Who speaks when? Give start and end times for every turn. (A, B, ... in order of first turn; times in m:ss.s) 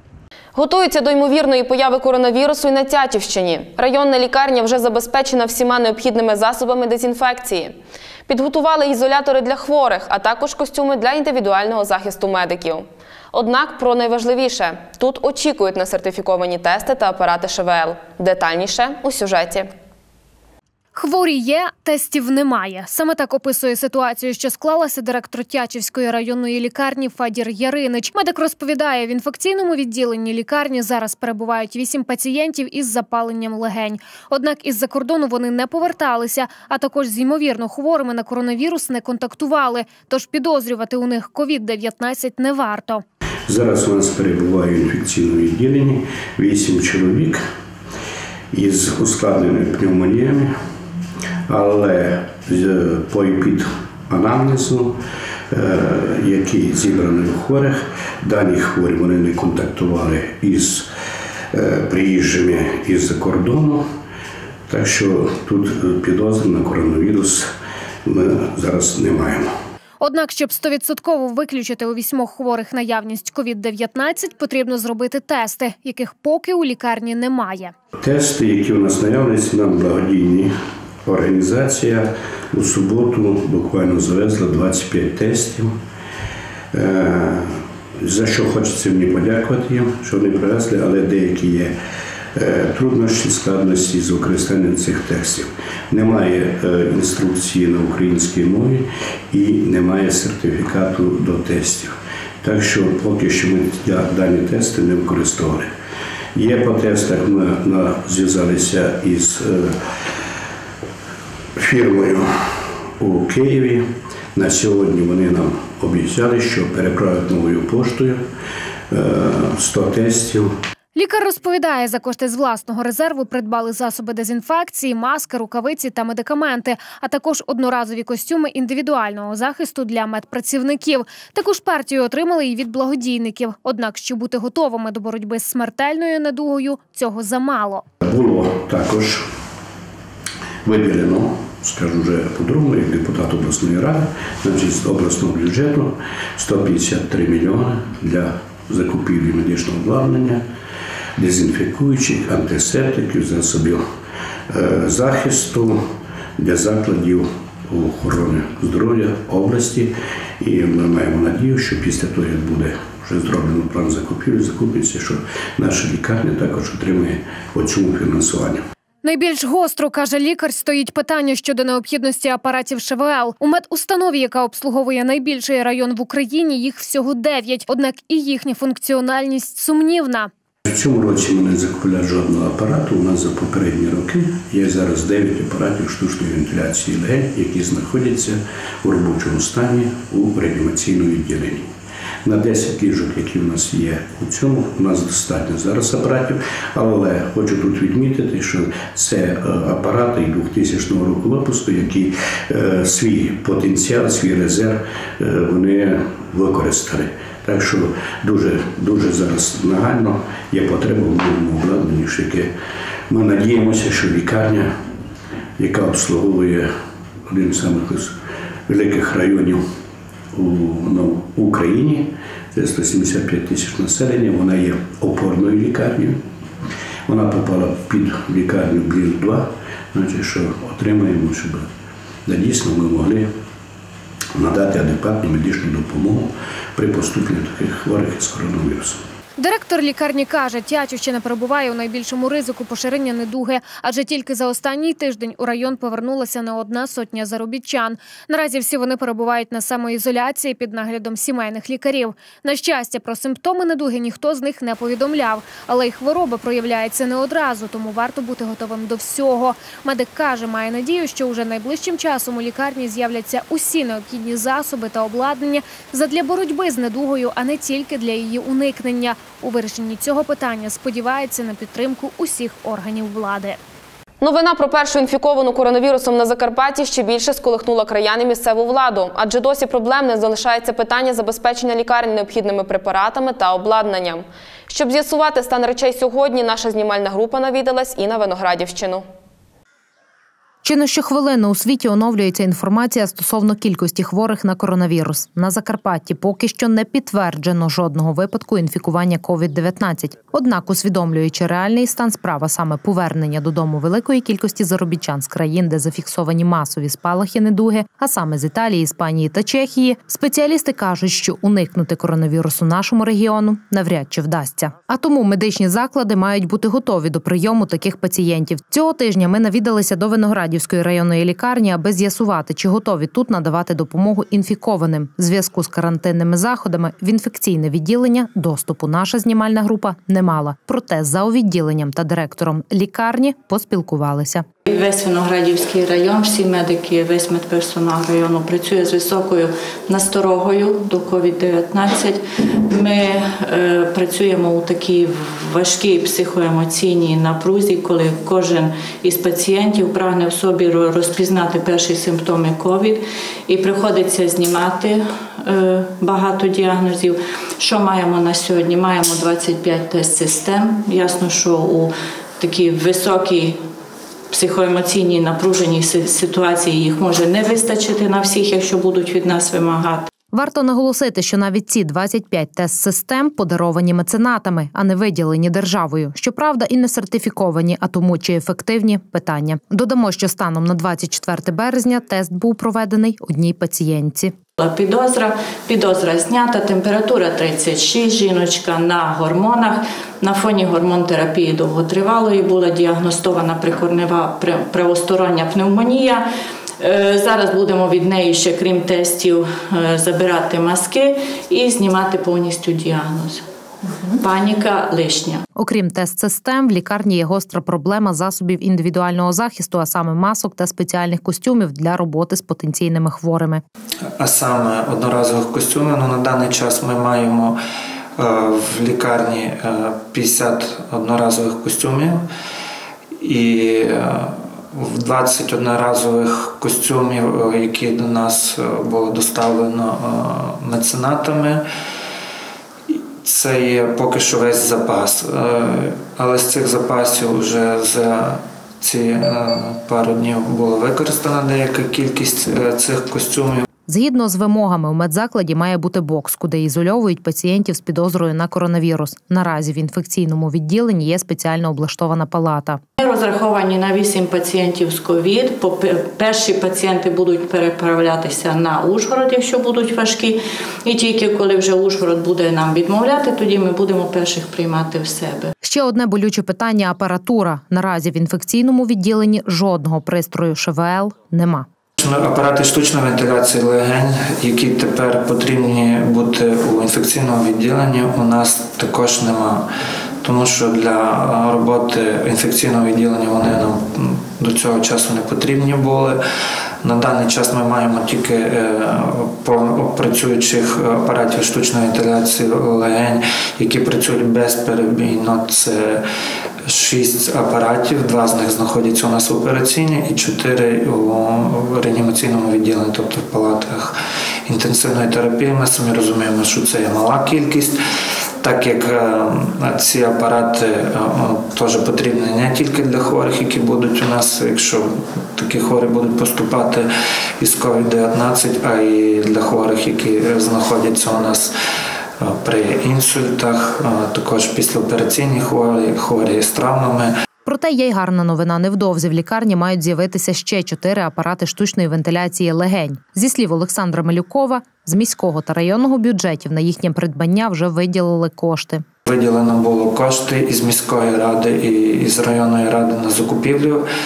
0:00.6-0:07.7 A
0:08.3-0:19.7 A
0:20.9-0:43.0 B
0:43.5-0:47.4 C
0:48.5-0:50.5 C
0:51.5-0:55.0 C
0:55.5-1:00.9 C
1:01.5-1:03.8 C
1:04.7-1:07.5 C
1:08.1-1:09.5 C
1:10.0-1:17.7 B
1:18.0-1:20.5 C
1:21.0-1:25.7 C
1:26.7-1:31.7 C
1:32.4-1:45.7 C
1:46.3-1:49.7 C
1:51.6-1:52.2 C
1:53.0-1:53.8 C
1:54.3-1:58.2 C
1:58.9-2:00.5 C
2:00.9-2:17.8 B
2:18.0-2:19.2 C
2:20.6-2:30.4 C
2:31.2-2:33.8 C
2:34.5-2:35.8 C
2:36.4-2:48.6 C
2:49.0-3:00.3 B
3:00.6-3:11.6 C
3:12.2-3:32.5 C
3:33.1-3:34.7 C
3:35.6-3:36.7 C
3:37.3-3:38.1 C
3:38.7-3:39.6 C
3:40.3-3:46.2 C
3:47.1-3:51.6 C
3:52.2-3:53.3 C
3:54.4-3:59.0 C
3:59.4-4:33.6 B
4:34.2-4:49.0 A
4:50.6-5:34.4 D
5:34.7-6:03.6 E
6:04.3-6:10.1 E
6:10.3-6:24.3 D
6:24.6-6:36.2 E
6:36.8-6:43.4 E
6:44.2-6:45.4 E
6:45.6-6:53.6 D
6:54.2-6:57.6 F
6:58.2-7:02.2 F
7:03.2-7:11.6 F
7:12.9-7:23.6 F
7:23.9-7:32.8 D
7:33.0-7:45.5 E
7:45.6-7:51.7 D
7:52.0-7:59.7 F
8:00.2-8:06.2 F
8:06.8-8:16.0 F
8:16.6-8:27.8 F
8:28.4-8:36.9 F
8:37.4-8:41.5 F
8:42.2-8:47.1 F
8:47.4-8:58.8 D
8:59.1-9:03.8 F